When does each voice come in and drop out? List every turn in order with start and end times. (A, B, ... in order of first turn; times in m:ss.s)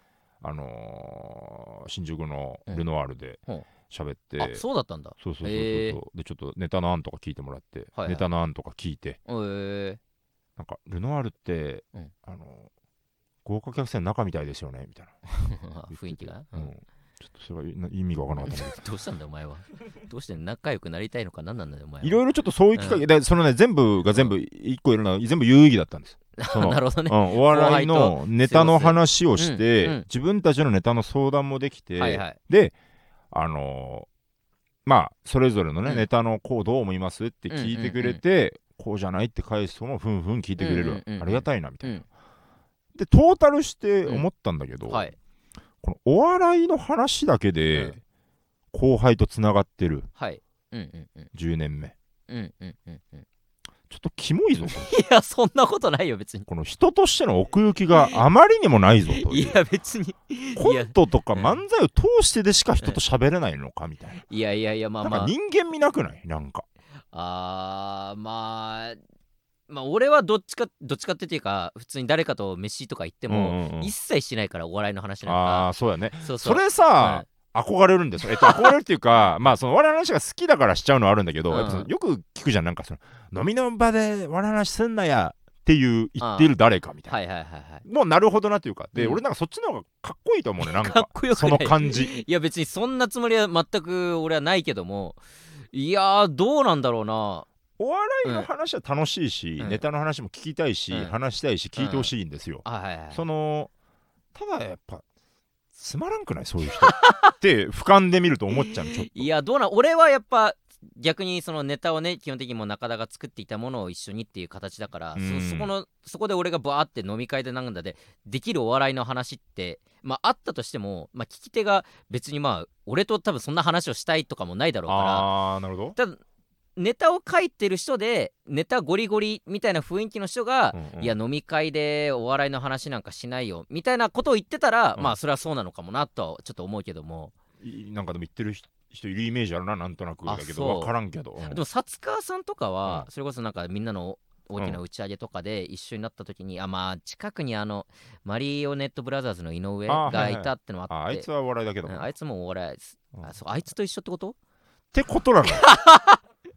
0:00.4-0:04.6 A
0:04.4-0:06.0 B
0:05.2-0:09.2 A
0:08.0-0:08.3 B
0:09.3-0:10.0 B
0:10.6-0:12.7 A
0:13.4-0:15.2 A
0:15.4-0:16.7 B
0:15.9-0:18.8 A
0:18.4-0:22.2 B
0:22.0-0:32.7 A
0:22.8-0:23.0 B
0:26.4-0:30.1 B
0:32.0-0:32.4 B
0:33.3-0:34.1 A
0:34.9-0:42.0 A
0:37.5-0:38.2 B
0:40.6-0:42.0 B
0:43.0-0:45.1 A
0:44.9-0:45.2 B
0:45.8-0:48.0 A
0:47.7-0:48.0 B
0:48.7-0:50.1 A
0:50.2-0:51.3 B
0:51.3-0:51.9 A
0:52.3-0:53.3 B
0:53.9-0:54.9 A
0:54.6-0:56.5 B
0:56.5-0:59.6 A
0:57.9-0:58.2 B
0:59.1-1:01.6 B
1:00.6-1:04.2 A
1:04.3-1:05.3 B
1:05.0-1:06.6 A
1:07.1-1:09.0 B
1:09.7-1:15.7 B
1:13.3-1:13.9 A
1:15.2-1:27.2 A
1:16.2-1:17.3 B
1:18.4-1:18.7 B
1:21.5-1:21.9 B
1:26.2-1:26.5 B
1:27.1-1:27.8 B
1:27.8-1:32.1 A
1:29.0-1:29.2 B
1:30.6-1:35.2 B
1:35.7-1:37.5 B
1:37.8-1:43.7 A
1:38.2-1:38.5 B
1:41.8-1:42.1 B
1:42.6-1:43.2 B
1:44.3-1:45.0 A
1:45.8-1:49.3 A
1:46.8-1:47.3 B
1:48.6-2:05.3 B
1:55.2-1:55.7 A
2:04.9-2:06.0 A
2:06.8-2:17.3 B
2:10.7-2:11.2 A
2:17.6-2:21.6 A
2:20.3-2:31.3 B
2:24.6-2:24.8 A
2:29.9-2:32.1 A
2:31.8-2:34.4 B
2:34.9-2:35.7 A
2:35.5-2:36.2 B